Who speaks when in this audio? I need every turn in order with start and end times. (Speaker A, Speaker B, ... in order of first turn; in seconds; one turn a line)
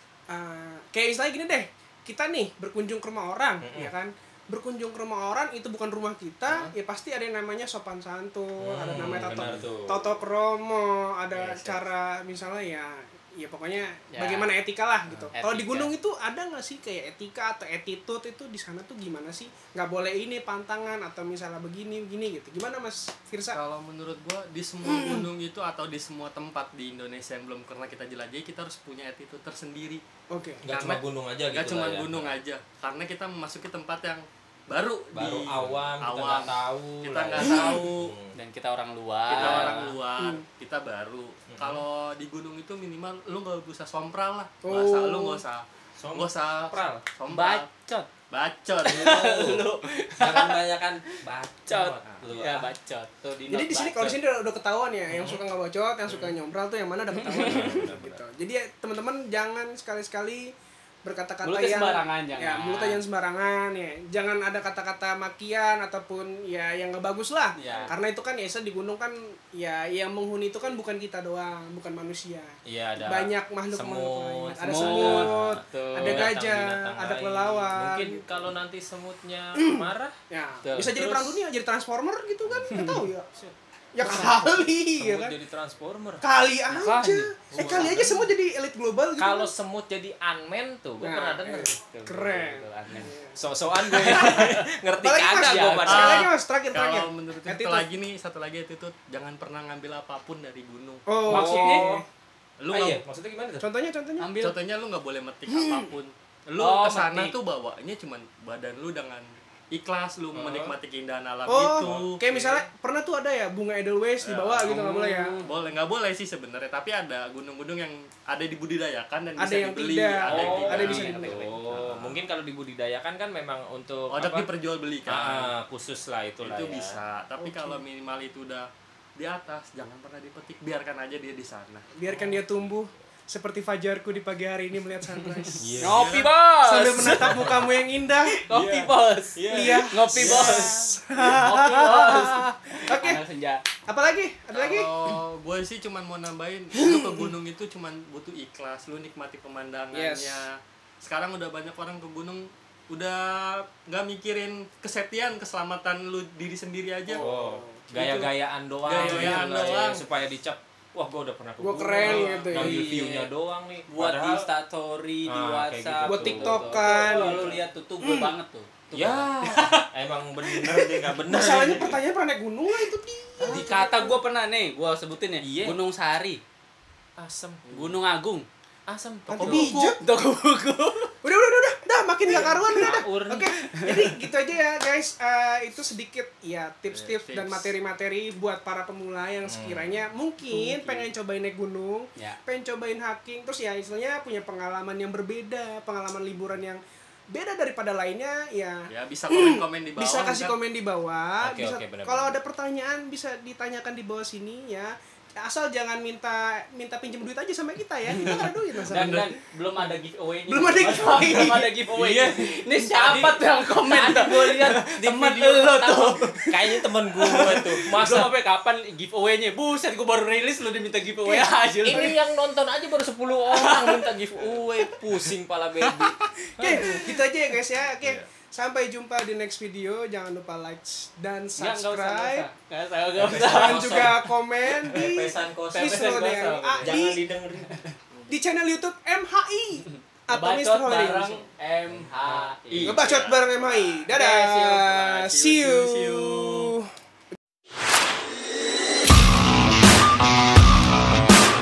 Speaker A: 0.3-23.6
Speaker B: 3.6-3.9
Speaker B: 8.6-10.1
Speaker C: 11.4-11.7
Speaker D: 14.1-14.5
Speaker D: 15.3-15.9
Speaker C: 23.5-30.0
Speaker A: 24.8-25.3
Speaker A: 30.3-30.6
Speaker B: 30.6-32.3
Speaker C: 30.7-38.1
Speaker B: 35.1-38.3
Speaker A: 37.4-37.7
Speaker D: 38.3-40.0
Speaker C: 39.3-47.6
Speaker B: 39.3-39.8
Speaker A: 40.2-40.4
Speaker B: 41.5-41.8
Speaker A: 44.6-45.4
Speaker B: 46.0-47.0
Speaker D: 47.3-48.1
Speaker C: 48.3-49.1
Speaker B: 48.8-49.6
Speaker D: 48.8-50.6
Speaker B: 50.2-52.7
Speaker D: 51.7-54.2
Speaker A: 53.5-60.5
Speaker B: 55.1-55.4
Speaker B: 56.1-56.4
Speaker D: 57.2-57.7
Speaker B: 57.3-58.2
Speaker A: 61.0-78.2
Speaker D: 61.4-63.0
Speaker D: 67.5-67.9
Speaker B: 67.6-67.9
Speaker B: 72.6-80.1
Speaker D: 74.6-76.3
Speaker A: 79.5-83.3
Speaker D: 80.6-81.4
Speaker D: 82.7-83.0
Speaker A: 83.9-85.3
Speaker B: 85.0-86.2
Speaker A: 86.2-89.5
Speaker D: 86.7-88.3
Speaker B: 87.5-88.2
Speaker B: 89.2-91.8
Speaker A: 91.0-93.4
Speaker D: 91.9-93.1
Speaker B: 93.3-96.3
Speaker D: 93.8-94.7
Speaker A: 94.1-94.4
Speaker A: 95.0-97.9
Speaker D: 95.3-95.9
Speaker C: 95.9-101.0
Speaker A: 101.1-102.0
Speaker D: 101.2-101.9
Speaker B: 101.2-102.0
Speaker C: 102.6-103.0
Speaker B: 102.7-103.7
Speaker A: 103.6-104.3
Speaker D: 104.2-104.5
Speaker C: 104.4-112.6
Speaker A: 105.5-105.9
Speaker D: 106.5-107.3
Speaker B: 110.3-110.8
Speaker A: 111.5-115.4
Speaker B: 111.8-112.1
Speaker C: 114.2-121.1
Speaker D: 114.7-115.4
Speaker A: 119.4-121.4
Speaker B: 120.3-124.5
Speaker D: 120.3-122.0
Speaker C: 124.1-125.5
Speaker B: 125.0-127.0
Speaker C: 126.4-131.9
Speaker A: 127.4-127.8
Speaker A: 131.9-135.7
Speaker B: 132.1-132.4
Speaker B: 135.6-136.3
Speaker D: 135.8-137.6
Speaker C: 135.8-136.3
Speaker A: 136.6-138.3
Speaker B: 137.1-137.7
Speaker D: 138.3-143.6
Speaker B: 138.5-140.8
Speaker A: 139.5-143.2
Speaker A: 143.9-144.9
Speaker C: 144.5-157.2
Speaker A: 146.7-147.3
Speaker A: 149.9-150.4
Speaker A: 157.1-158.2
Speaker B: 157.2-164.4
Speaker C: 158.8-160.0
Speaker D: 159.0-159.5
Speaker A: 161.6-162.8
Speaker C: 162.0-162.5
Speaker D: 162.4-163.3
Speaker D: 163.9-169.8
Speaker B: 165.2-167.6
Speaker A: 166.0-168.3
Speaker B: 168.9-172.0
Speaker A: 170.8-173.7
Speaker B: 173.4-174.2
Speaker D: 173.4-176.4
Speaker B: 175.4-175.8
Speaker B: 177.2-177.7
Speaker D: 177.7-178.4
Speaker B: 178.9-179.8
Speaker A: 179.3-180.0
Speaker D: 179.4-181.1
Speaker A: 181.2-209.2
Speaker B: 182.3-183.5
Speaker D: 183.6-184.1
Speaker C: 186.9-187.7
Speaker B: 189.4-190.0
Speaker D: 190.6-191.0
Speaker C: 198.9-200.6
Speaker B: 201.4-202.3
Speaker D: 208.1-216.5
Speaker C: 208.2-209.2
Speaker A: 210.5-211.7
Speaker B: 211.9-218.3
Speaker D: 217.2-222.1
Speaker A: 221.2-221.5
Speaker B: 221.8-227.0
Speaker D: 223.5-224.0
Speaker A: 226.6-232.4
Speaker B: 228.0-228.3
Speaker D: 231.6-234.2
Speaker B: 233.2-234.2
Speaker A: 233.3-237.2
Speaker B: 234.9-236.1
Speaker D: 235.7-237.0
Speaker B: 236.8-237.7
Speaker D: 237.6-237.9
Speaker A: 238.3-241.4
Speaker D: 239.9-243.1
Speaker B: 241.9-243.8
Speaker A: 242.8-246.9
Speaker C: 244.1-246.7